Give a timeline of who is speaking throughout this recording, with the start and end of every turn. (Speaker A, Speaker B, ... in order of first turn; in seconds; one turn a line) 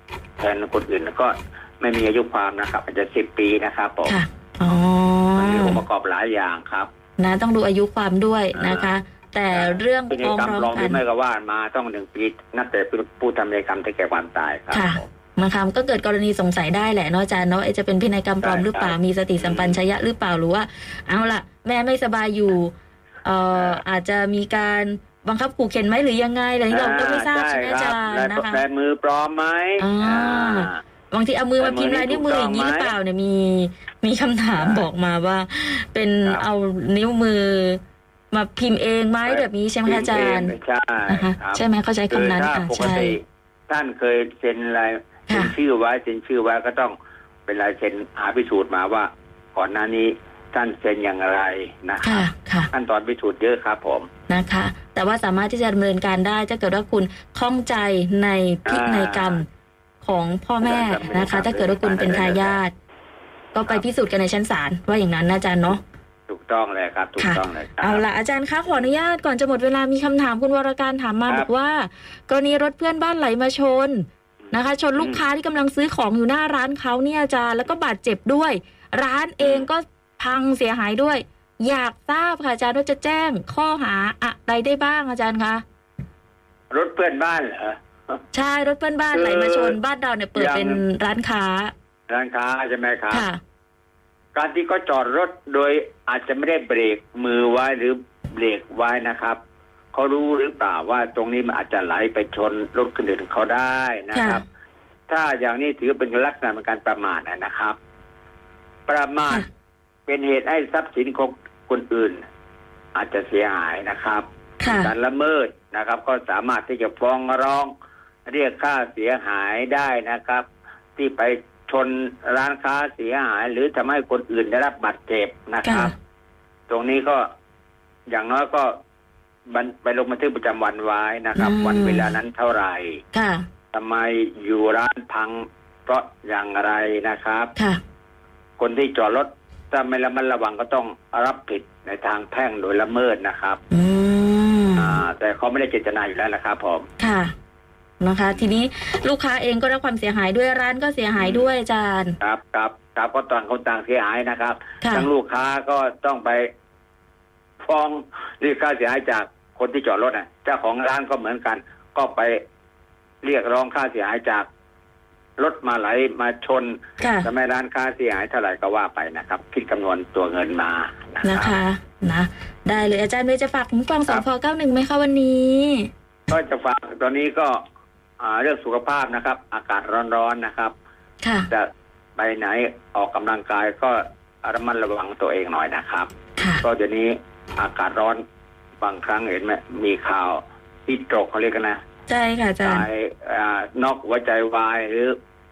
Speaker A: 0.4-4.2
Speaker B: 4.1-5.8
Speaker A: 5.4-6.9
Speaker B: 7.2-11.0
Speaker A: 8.6-8.9
Speaker A: 9.5-15.1
Speaker B: 14.7-22.7
Speaker A: 18.4-19.8
Speaker B: 23.2-28.6
Speaker A: 23.6-23.8
Speaker A: 26.7-30.8
Speaker B: 29.8-37.8
Speaker A: 31.6-32.9
Speaker A: 34.6-34.9
Speaker B: 38.3-40.5
Speaker A: 39.3-47.0
Speaker B: 41.1-43.2
Speaker B: 45.3-45.5
Speaker A: 47.5-54.1
Speaker B: 52.0-52.7
Speaker B: 54.3-59.5
Speaker A: 58.7-59.4
Speaker B: 60.0-62.7
Speaker A: 60.6-62.6
Speaker B: 63.5-65.8
Speaker A: 66.3-68.0
Speaker B: 67.2-85.6
Speaker A: 75.0-75.2
Speaker A: 79.4-79.7
Speaker A: 86.7-87.8
Speaker B: 88.3-91.7
Speaker A: 89.1-89.8
Speaker A: 90.4-90.8
Speaker A: 92.1-93.2
Speaker B: 93.1-93.4
Speaker A: 94.3-99.4
Speaker A: 99.9-104.4
Speaker B: 104.1-104.4
Speaker A: 105.1-107.8
Speaker A: 108.9-109.5
Speaker A: 110.1-112.2
Speaker A: 113.0-117.7
Speaker B: 114.6-114.9
Speaker A: 118.3-120.5
Speaker A: 121.0-125.9
Speaker B: 125.7-125.9
Speaker A: 126.7-127.2
Speaker A: 128.1-128.7
Speaker A: 129.5-133.0
Speaker B: 131.4-132.1
Speaker B: 133.1-133.5
Speaker A: 133.7-137.5
Speaker A: 138.6-143.6
Speaker B: 143.7-145.0
Speaker A: 144.8-146.9
Speaker B: 147.0-147.3
Speaker B: 148.0-152.2
Speaker A: 148.3-148.6
Speaker A: 151.2-151.5
Speaker A: 152.2-156.5
Speaker B: 154.8-155.1
Speaker A: 157.6-162.4
Speaker A: 163.2-164.5
Speaker A: 165.4-171.5
Speaker B: 167.0-167.3
Speaker B: 171.2-175.9
Speaker A: 176.3-177.6
Speaker A: 178.2-180.7
Speaker B: 181.2-181.5
Speaker A: 181.5-186.1
Speaker B: 186.4-186.6
Speaker A: 186.6-188.2
Speaker A: 188.8-191.8
Speaker B: 192.1-192.9
Speaker A: 192.6-195.2